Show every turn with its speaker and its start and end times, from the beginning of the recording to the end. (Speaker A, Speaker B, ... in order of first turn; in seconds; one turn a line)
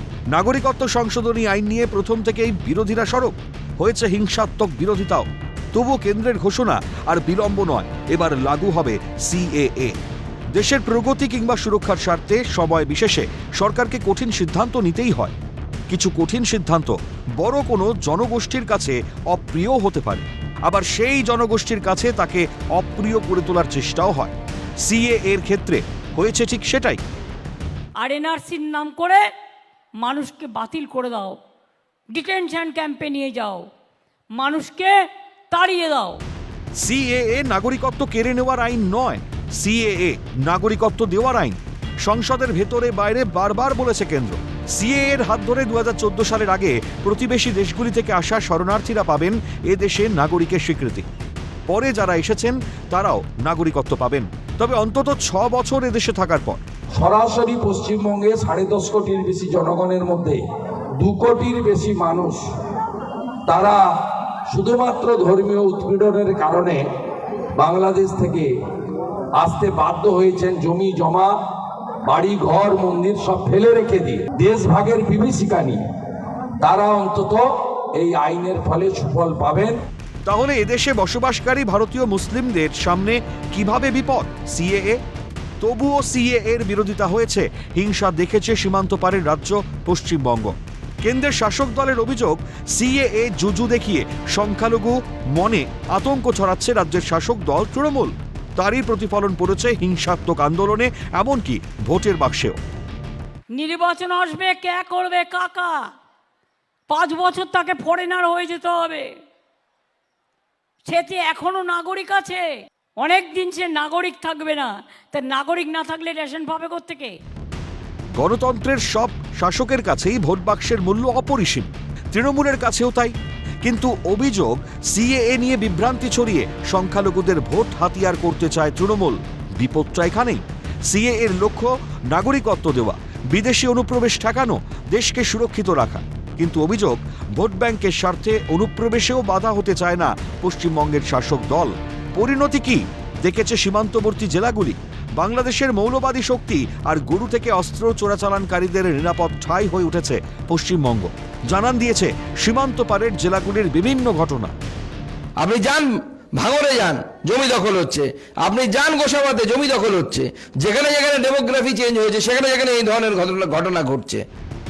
Speaker A: 0.3-10.0
Speaker A: 10.5-15.3
Speaker A: 15.9-27.0
Speaker B: 28.0-29.2
Speaker B: 30.0-31.4
Speaker B: 32.1-33.6
Speaker B: 34.4-34.9
Speaker B: 35.5-36.2
Speaker A: 36.8-51.1
Speaker A: 51.7-56.6
Speaker C: 57.0-60.4
Speaker C: 61.0-62.4
Speaker C: 63.5-63.8
Speaker C: 64.5-66.8
Speaker C: 67.6-68.5
Speaker C: 69.4-71.3
Speaker C: 72.1-75.8
Speaker C: 76.6-79.8
Speaker A: 80.2-85.0
Speaker A: 85.6-102.6
Speaker B: 103.5-105.8
Speaker B: 106.9-109.1
Speaker B: 110.9-112.5
Speaker B: 113.0-117.2
Speaker A: 118.2-154.5
Speaker D: 155.4-164.2